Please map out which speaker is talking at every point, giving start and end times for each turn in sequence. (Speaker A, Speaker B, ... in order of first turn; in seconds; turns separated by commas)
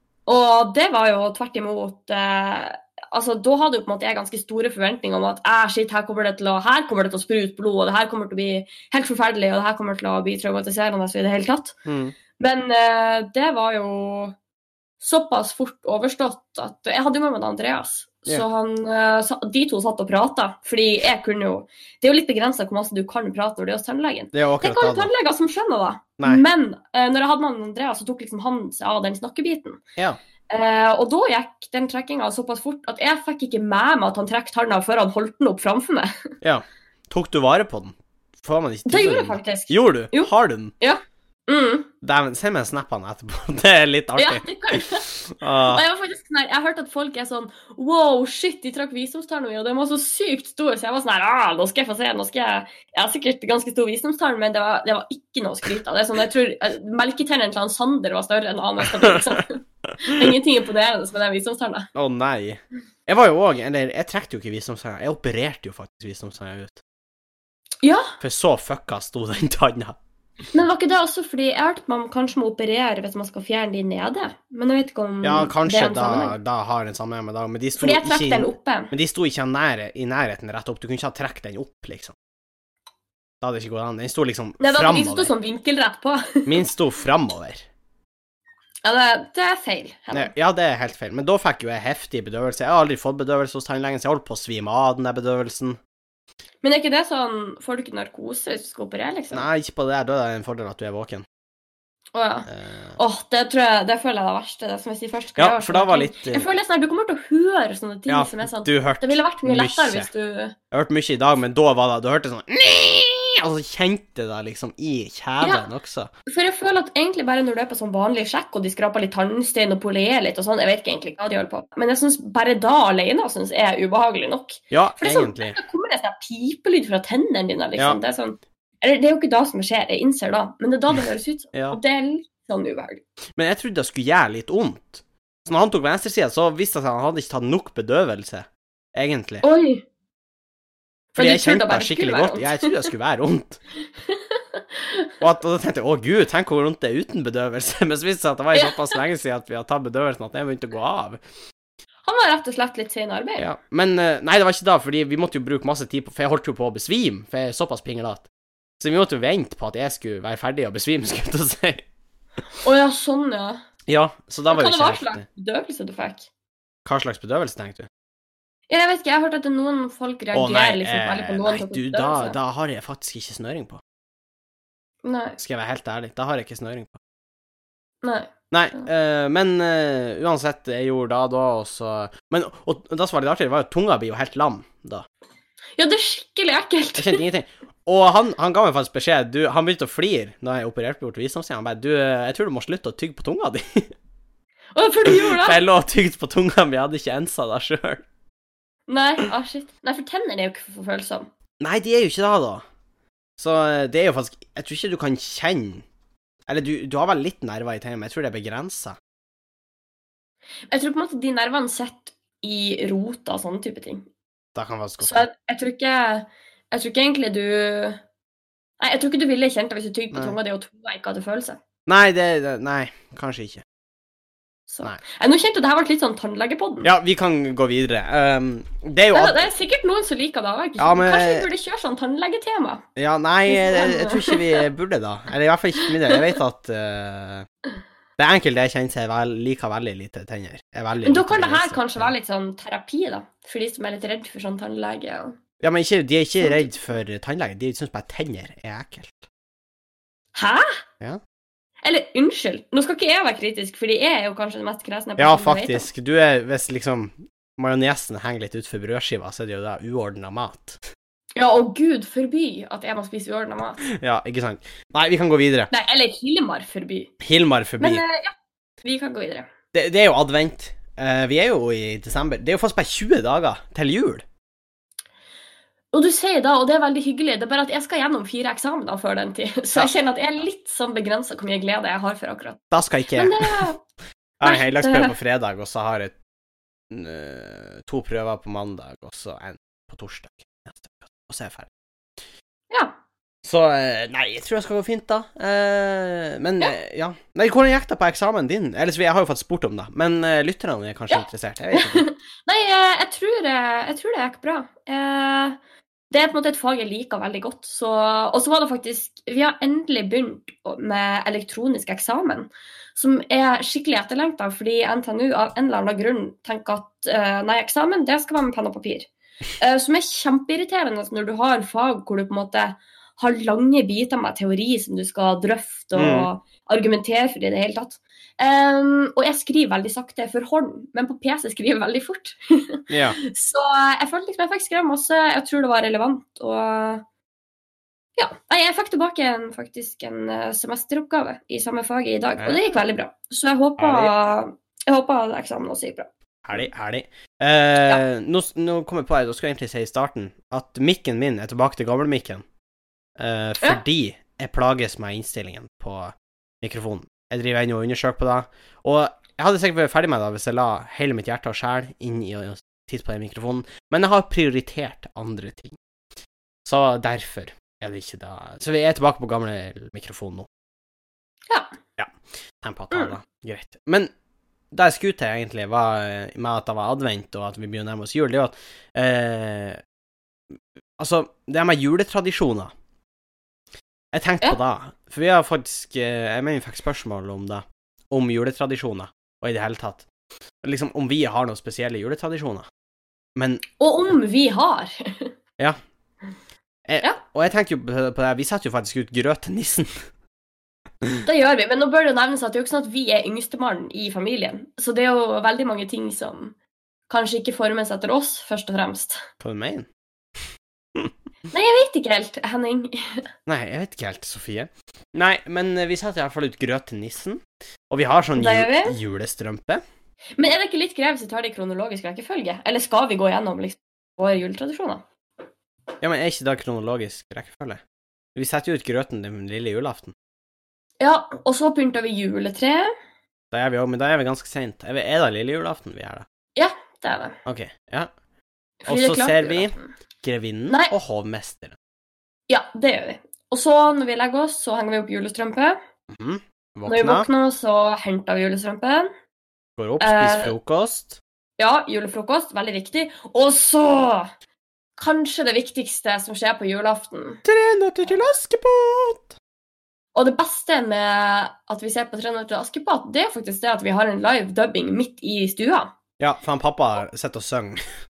Speaker A: 0.3-11.8, Speaker B: 11.8-12.1, Speaker A: 12.4-14.3, Speaker A: 15.0-29.8, Speaker B: 24.3-25.1, Speaker A: 30.5-36.2, Speaker B: 36.4-40.7, Speaker A: 38.9-41.9, Speaker B: 42.0-45.8, Speaker A: 44.2-45.1, Speaker A: 45.6-61.9, Speaker B: 59.0-59.4, Speaker B: 61.9-66.8, Speaker A: 67.8-68.2, Speaker B: 68.2-70.0, Speaker A: 70.5-76.4, Speaker B: 75.2-82.1, Speaker A: 77.8-78.9, Speaker B: 83.4-85.3, Speaker A: 84.6-86.6, Speaker B: 86.5-87.6, Speaker A: 88.8-90.3, Speaker B: 90.1-95.8, Speaker A: 96.6-99.5, Speaker B: 99.3-101.2, Speaker A: 102.1-110.5, Speaker B: 102.5-103.0, Speaker B: 105.4-106.5, Speaker B: 108.1-110.1, Speaker B: 110.7-116.1, Speaker A: 116.3-133.0, Speaker B: 124.7-125.6, Speaker B: 131.5-131.8, Speaker B: 133.3-139.4, Speaker A: 139.4-139.8, Speaker B: 141.1-143.6, Speaker A: 141.2-142.9, Speaker A: 144.1-145.1, Speaker B: 145.2-151.2, Speaker A: 148.5-149.0, Speaker A: 152.0-153.5, Speaker B: 153.4-158.3, Speaker B: 158.8-161.8, Speaker A: 162.6-163.6, Speaker B: 163.9-165.2, Speaker A: 164.5-166.3, Speaker B: 166.8-167.9, Speaker A: 168.7-172.4, Speaker B: 170.3-173.8, Speaker A: 175.0-175.4, Speaker B: 175.4-177.0, Speaker A: 178.0-178.9, Speaker B: 178.5-185.0, Speaker A: 185.8-187.2, Speaker B: 187.0-193.9, Speaker A: 194.7-195.6, Speaker B: 195.0-198.0, Speaker A: 198.9-201.3, Speaker B: 201.6-202.6, Speaker B: 203.4-205.8, Speaker B: 206.5-209.0, Speaker A: 210.7-214.1, Speaker B: 214.5-215.3, Speaker A: 215.0-218.0, Speaker A: 218.8-221.6, Speaker B: 221.8-223.6, Speaker A: 224.7-226.9, Speaker B: 226.8-229.5, Speaker A: 229.1-232.8, Speaker B: 230.8-231.5, Speaker B: 233.0-237.5, Speaker A: 233.5-234.6, Speaker A: 235.8-236.2, Speaker B: 238.2-242.1, Speaker A: 241.0-245.4, Speaker B: 245.6-249.2, Speaker A: 246.4-246.7, Speaker A: 250.3-250.8, Speaker A: 251.8-255.9, Speaker B: 255.2-260.8, Speaker A: 261.4-263.8, Speaker B: 263.8-265.7, Speaker A: 265.7-267.1, Speaker B: 267.2-268.0, Speaker A: 267.8-269.5, Speaker B: 269.7-274.2, Speaker A: 275.9-282.6, Speaker B: 282.7-283.7, Speaker A: 283.1-283.8, Speaker B: 284.4-286.1, Speaker A: 284.4-285.1, Speaker B: 286.9-291.7, Speaker B: 293.4-302.1, Speaker A: 301.1-305.6, Speaker A: 306.1-337.0, Speaker B: 325.9-326.3, Speaker B: 332.9-333.2, Speaker A: 338.2-346.6, Speaker B: 343.8-344.1, Speaker B: 346.4-352.4, Speaker B: 353.2-365.8, Speaker B: 366.6-370.5, Speaker B: 372.0-374.1, Speaker B: 374.7-379.8, Speaker B: 381.0-382.7, Speaker B: 384.1-390.1, Speaker B: 390.6-392.7, Speaker B: 393.4-393.6, Speaker A: 393.8-395.3, Speaker B: 396.9-400.0, Speaker A: 401.2-406.5, Speaker A: 407.1-409.2, Speaker B: 409.4-409.9, Speaker A: 411.5-413.2, Speaker B: 413.5-419.8, Speaker A: 418.4-419.0, Speaker A: 420.4-425.0, Speaker B: 426.0-427.8, Speaker B: 428.3-430.1, Speaker A: 431.0-432.9, Speaker B: 433.5-436.2, Speaker A: 436.6-437.4, Speaker B: 437.4-438.1, Speaker A: 438.8-439.9, Speaker B: 438.9-441.8, Speaker A: 442.5-445.8, Speaker B: 446.1-447.3, Speaker A: 446.9-449.1, Speaker B: 449.8-451.2, Speaker A: 450.0-450.5, Speaker A: 451.6-454.3, Speaker A: 455.0-457.4, Speaker B: 457.4-459.3, Speaker A: 460.1-465.9, Speaker B: 466.2-467.8